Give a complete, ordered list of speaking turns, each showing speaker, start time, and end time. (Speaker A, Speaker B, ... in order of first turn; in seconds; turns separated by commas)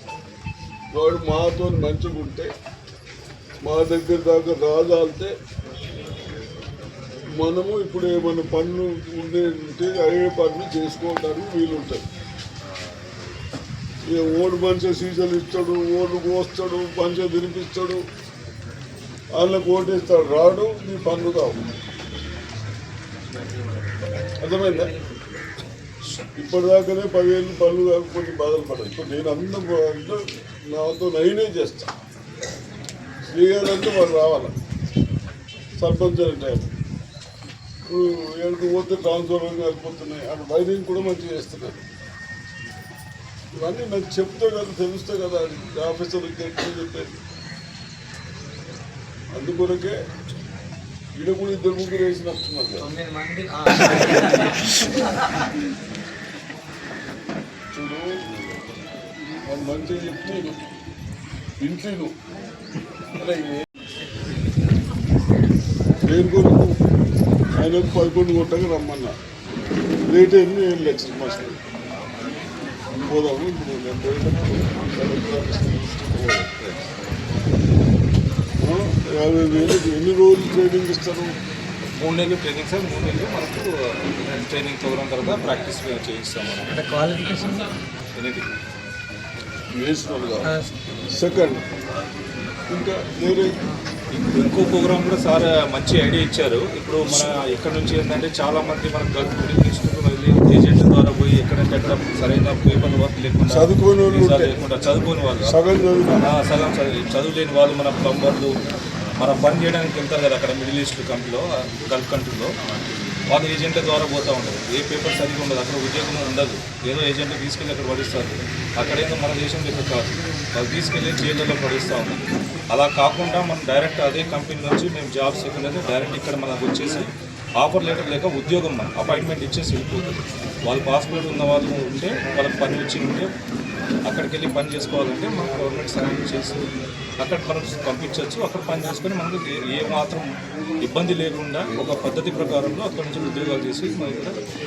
Speaker A: 0.9-2.5, Speaker A: 3.6-5.3, Speaker A: 7.4-12.0, Speaker A: 14.1-18.0, Speaker A: 19.4-21.6, Speaker A: 24.4-24.9, Speaker A: 26.4-30.2, Speaker A: 30.7-31.9, Speaker A: 33.3-34.5, Speaker A: 35.8-36.7, Speaker A: 37.9-41.9, Speaker A: 43.6-47.1, Speaker A: 49.3-50.0, Speaker A: 51.2-52.9, Speaker B: 52.8-54.8, Speaker A: 57.7-58.1, Speaker A: 59.5-60.5, Speaker A: 61.6-62.1, Speaker A: 63.2-63.6, Speaker A: 66.1-66.7, Speaker A: 67.6-69.1, Speaker A: 70.1-71.6, Speaker A: 73.0-76.7, Speaker A: 78.6-81.3, Speaker C: 82.0-86.8, Speaker B: 86.7-87.7, Speaker C: 88.2-88.5, Speaker A: 89.8-90.5, Speaker B: 90.5-90.7, Speaker A: 91.2-91.6, Speaker A: 92.7-93.5, Speaker C: 94.1-105.6, Speaker A: 103.5-104.5, Speaker A: 105.5-106.2, Speaker C: 106.3-108.5, Speaker C: 109.2-112.5, Speaker C: 113.3-127.1, Speaker C: 127.6-133.3, Speaker C: 134.1-136.6, Speaker C: 137.2-140.2, Speaker C: 140.8-144.4